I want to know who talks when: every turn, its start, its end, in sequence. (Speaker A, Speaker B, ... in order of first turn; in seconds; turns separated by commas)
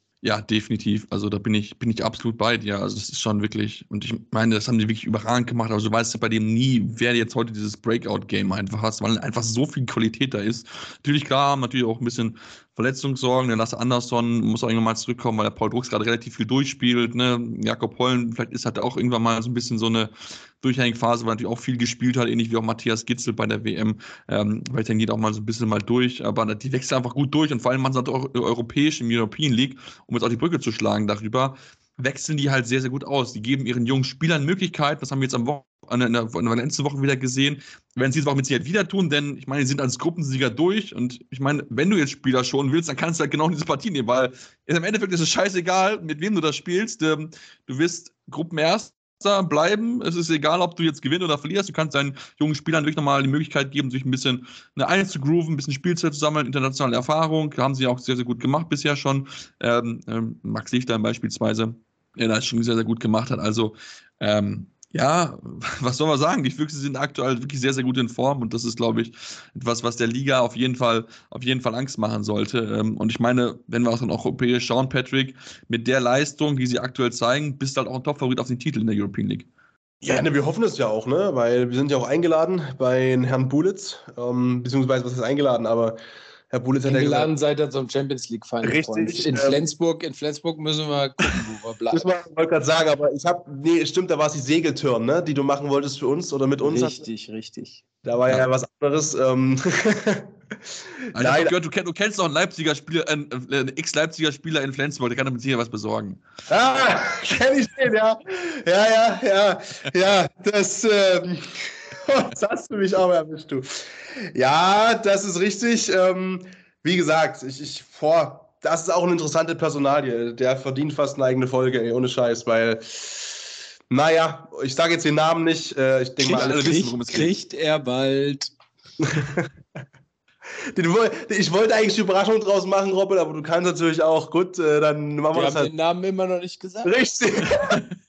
Speaker A: 0.2-79.5, Speaker B: 80.0-86.0, Speaker B: 86.5-87.3, Speaker C: 86.8-92.0, Speaker B: 88.6-89.6, Speaker B: 91.9-97.0, Speaker C: 96.6-97.8, Speaker B: 98.0-100.3, Speaker A: 101.1-106.2, Speaker B: 101.2-101.5, Speaker B: 106.5-113.7, Speaker B: 114.3-123.3, Speaker B: 123.9-126.7, Speaker C: 126.2-128.5, Speaker A: 126.3-127.3, Speaker B: 129.0-129.5, Speaker B: 130.7-135.7, Speaker C: 135.3-136.9, Speaker B: 136.8-137.8